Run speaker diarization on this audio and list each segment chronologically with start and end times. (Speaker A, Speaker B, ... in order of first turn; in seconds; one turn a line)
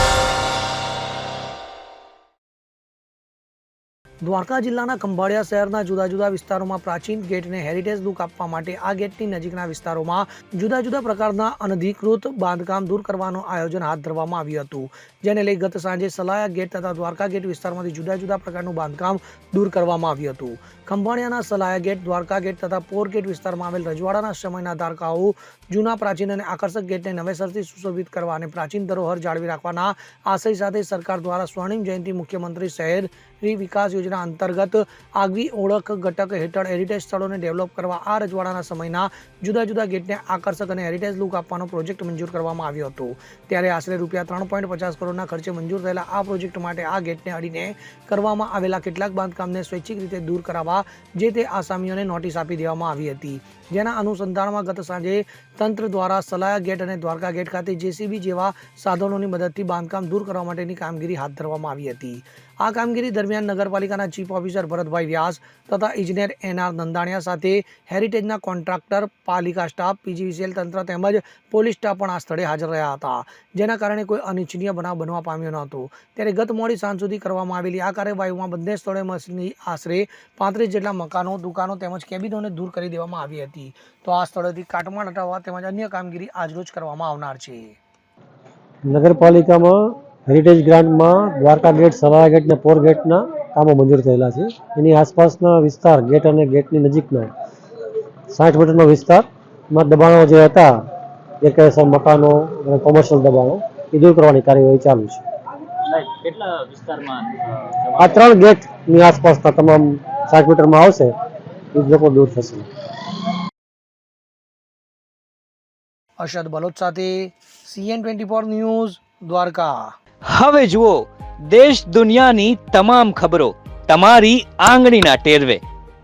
Speaker A: 4.2-87.8
Speaker B: 88.9-97.3
Speaker B: 98.3-100.7
Speaker B: 101.4-105.2
Speaker C: 105.9-108.2
Speaker B: 108.0-111.1
Speaker B: 111.7-112.7
Speaker A: 116.2-119.9
Speaker D: 120.3-125.6